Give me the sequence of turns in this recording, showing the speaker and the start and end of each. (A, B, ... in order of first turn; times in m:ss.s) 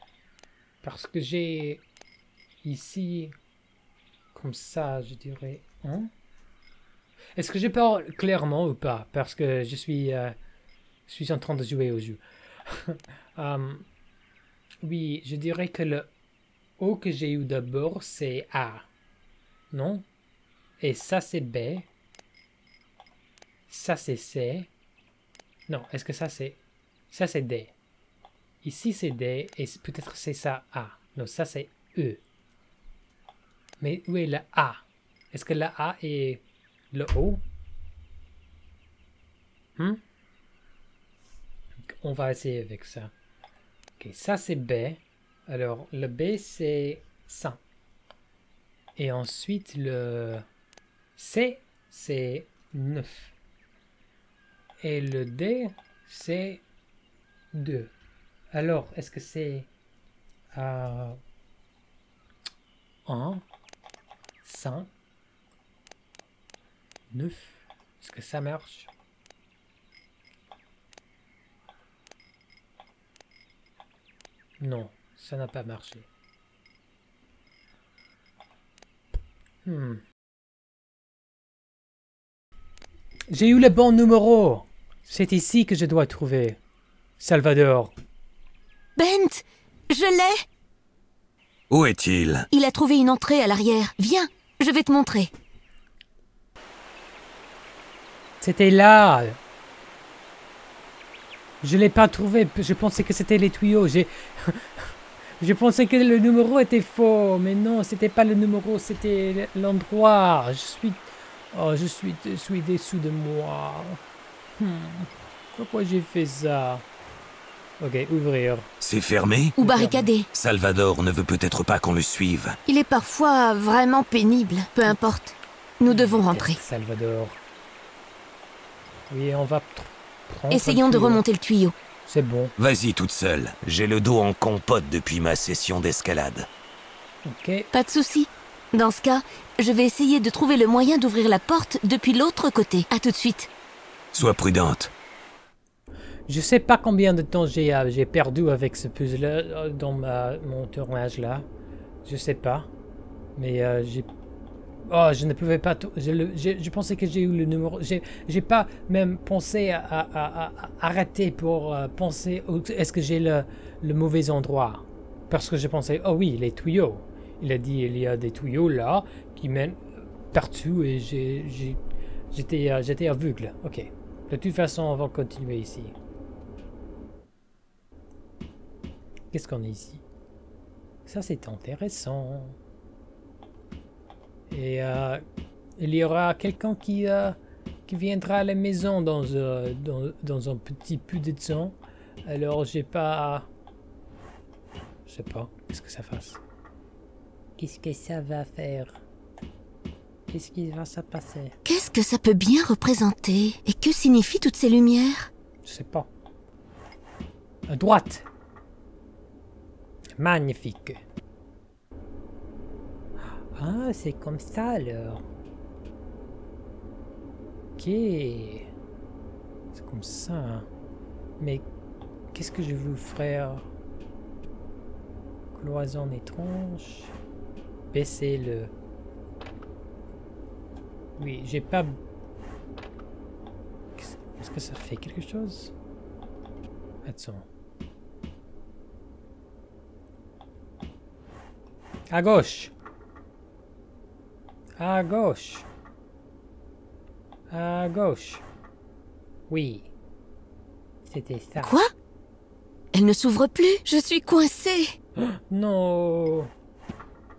0:00.8-0:01.8 A
0:02.6-0:03.3 A
0:04.3-0:06.1 A
0:07.4-0:10.3 A
0:11.1-0:13.8 A
0:14.8-0:16.1 A
0:16.8-0:18.9 A
0:19.7-0:20.0 A
0:20.8-0:21.9 A
0:23.7-0:24.7 A
0:25.7-0:26.6 A
0:27.1-0:27.7 A
0:28.6-0:32.2 A
0:33.8-0:37.4 A
0:41.9-0:43.1 A
0:44.0-0:47.6 A
0:49.0-0:50.4 A
0:51.2-0:53.3 A
0:54.8-0:56.6 A
0:57.5-0:57.9 A
0:58.5-0:59.7 A
1:00.5-1:01.2 A
1:03.0-1:03.4 A
1:04.4-1:04.9 A
1:07.1-1:08.9 A
1:14.6-1:16.0 A
1:19.6-1:20.0 A
1:23.3-1:26.6 A
1:27.2-1:27.9 A
1:29.0-1:30.4 B
1:31.7-1:32.5 C
1:32.5-1:35.3 B
1:38.4-1:39.4 A
1:41.6-1:54.0 A
1:54.6-1:56.8 A
1:57.8-1:58.7 A
1:58.8-1:59.5 C
1:59.6-2:00.3 B
1:59.6-2:00.1 A
2:00.3-2:02.6 C
2:02.6-2:06.6 B
2:05.9-2:07.4 A
2:09.1-2:11.2 A
2:10.5-2:11.7 B
2:12.0-2:12.5 A
2:12.6-2:16.5 C
2:17.2-2:17.7 A
2:17.7-2:23.5 B
2:24.1-2:24.9 C
2:26.3-2:31.5 A
2:32.0-2:32.7 A
2:33.4-2:34.1 A
2:34.9-2:51.8 A
2:52.3-2:55.9 A
2:59.3-3:00.0 A
3:01.0-3:02.6 A
3:04.5-3:05.2 A
3:05.8-3:13.5 A
3:15.0-3:16.4 A
3:17.6-3:19.0 A
3:20.3-3:21.6 A
3:21.6-3:25.3 B
3:25.6-3:26.1 A
3:27.7-3:28.2 A
3:30.2-3:31.0 A
3:33.3-3:35.2 A
3:37.8-3:38.7 A
3:39.7-3:40.7 A
3:41.4-3:41.6 A
3:42.3-3:43.7 A
3:45.5-3:47.1 A
3:47.9-3:48.7 A
3:51.2-3:52.0 A
3:54.0-3:55.7 A
3:57.0-3:57.4 A
4:02.1-4:02.7 A
4:04.8-4:05.6 A
4:07.5-4:08.4 A
4:09.5-4:09.9 A
4:11.0-4:11.8 A
4:11.6-4:11.9 B
4:12.9-4:14.9 B
4:15.2-4:16.5 A